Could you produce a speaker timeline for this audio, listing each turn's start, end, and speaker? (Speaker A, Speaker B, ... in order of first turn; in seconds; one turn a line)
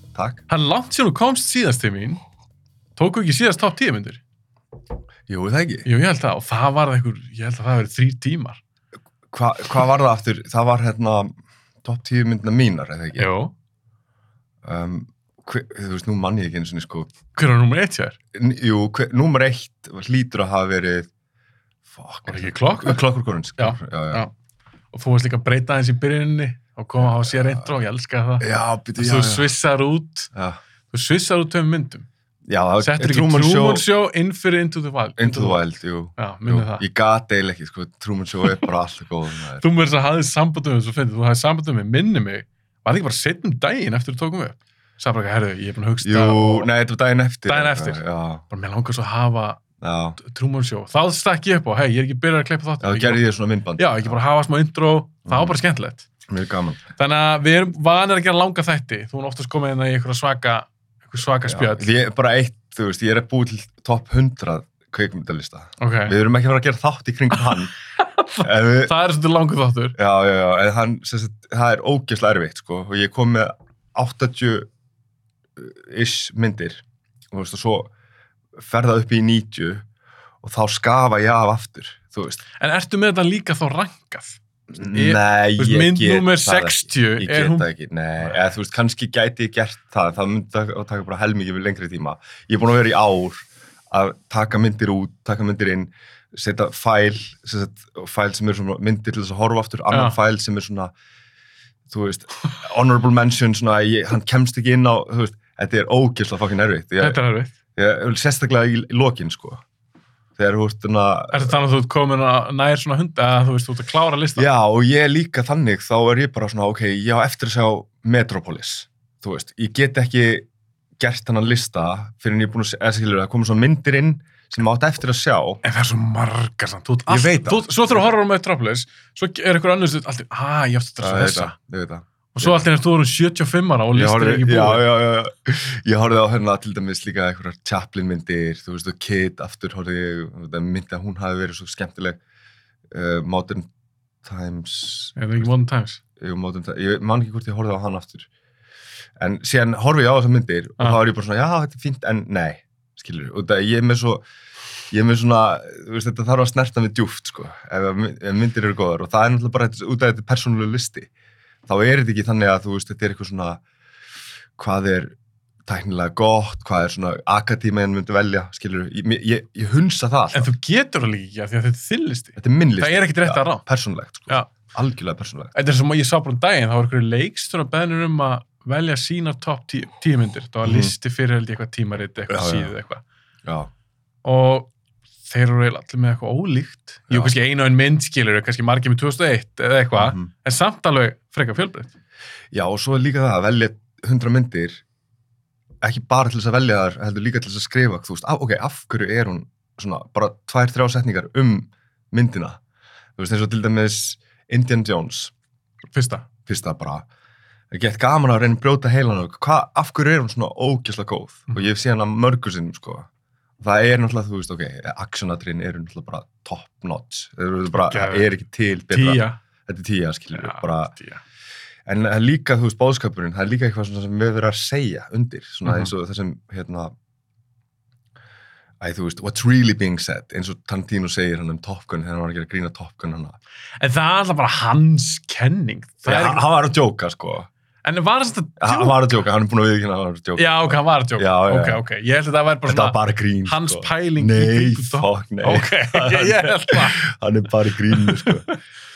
Speaker A: 0.1-0.4
Speaker B: 0.5-2.2
Speaker B: 3.0-4.2
Speaker A: 5.3-5.9
Speaker B: 5.8-8.6
Speaker A: 9.3-11.3
Speaker A: 11.8-13.3
Speaker B: 13.2-13.5
Speaker A: 14.7-17.2
Speaker B: 17.3-18.2
Speaker A: 18.4-21.1
Speaker A: 21.9-24.2
Speaker B: 22.2-23.0
Speaker B: 23.6-24.3
Speaker B: 24.9-30.3
Speaker A: 27.0-27.6
Speaker A: 28.4-29.5
Speaker A: 30.3-30.6
Speaker B: 30.9-32.1
Speaker A: 32.5-33.9
Speaker B: 32.8-35.6
Speaker A: 35.2-39.6
Speaker B: 36.2-36.8
Speaker B: 39.6-46.7
Speaker A: 46.0-48.4
Speaker B: 47.5-49.6
Speaker A: 49.8-50.2
Speaker B: 50.2-53.2
Speaker A: 52.8-54.2
Speaker B: 53.8-56.1
Speaker A: 55.3-55.6
Speaker A: 56.3-56.9
Speaker B: 57.0-61.9
Speaker A: 61.5-67.8
Speaker B: 65.8-66.2
Speaker B: 68.2-70.0
Speaker A: 68.4-68.9
Speaker A: 70.0-74.7
Speaker A: 75.6-77.9
Speaker A: 78.6-79.8
Speaker A: 80.4-82.4
Speaker B: 82.6-87.7
Speaker A: 84.7-100.9
Speaker B: 99.9-100.2
Speaker A: 101.9-107.2
Speaker B: 107.0-107.5
Speaker A: 107.8-109.6
Speaker A: 110.4-111.6
Speaker B: 111.3-114.5
Speaker A: 114.4-120.5
Speaker A: 121.0-125.6
Speaker B: 125.6-131.5
Speaker A: 127.1-128.1
Speaker A: 131.0-132.6
Speaker B: 132.3-134.9
Speaker A: 133.9-142.2
Speaker A: 142.9-143.7
Speaker A: 144.2-145.5
Speaker B: 145.2-146.0
Speaker A: 146.2-148.3
Speaker A: 149.2-154.2
Speaker A: 154.9-161.1
Speaker A: 161.7-163.6
Speaker A: 164.6-165.2
Speaker A: 165.7-170.5
Speaker B: 170.3-173.6
Speaker A: 172.4-175.5
Speaker B: 174.3-174.6
Speaker B: 175.6-183.0
Speaker A: 180.6-180.9
Speaker A: 182.3-182.7
Speaker A: 183.4-183.7
Speaker B: 184.2-184.7
Speaker B: 185.3-191.9
Speaker A: 187.1-187.4
Speaker A: 190.0-190.3
Speaker A: 192.5-194.8
Speaker A: 195.8-202.6
Speaker A: 203.2-205.3
Speaker B: 205.9-206.3
Speaker A: 206.5-207.1
Speaker A: 207.7-213.1
Speaker A: 213.6-220.9
Speaker B: 217.7-218.3
Speaker B: 218.9-219.4
Speaker B: 220.3-221.2
Speaker A: 221.9-226.9
Speaker B: 225.7-225.9
Speaker A: 228.8-233.4
Speaker B: 233.8-236.4
Speaker A: 236.1-237.5
Speaker B: 237.8-239.2
Speaker A: 238.6-241.8
Speaker B: 240.4-247.0
Speaker A: 242.7-248.5
Speaker B: 247.7-248.5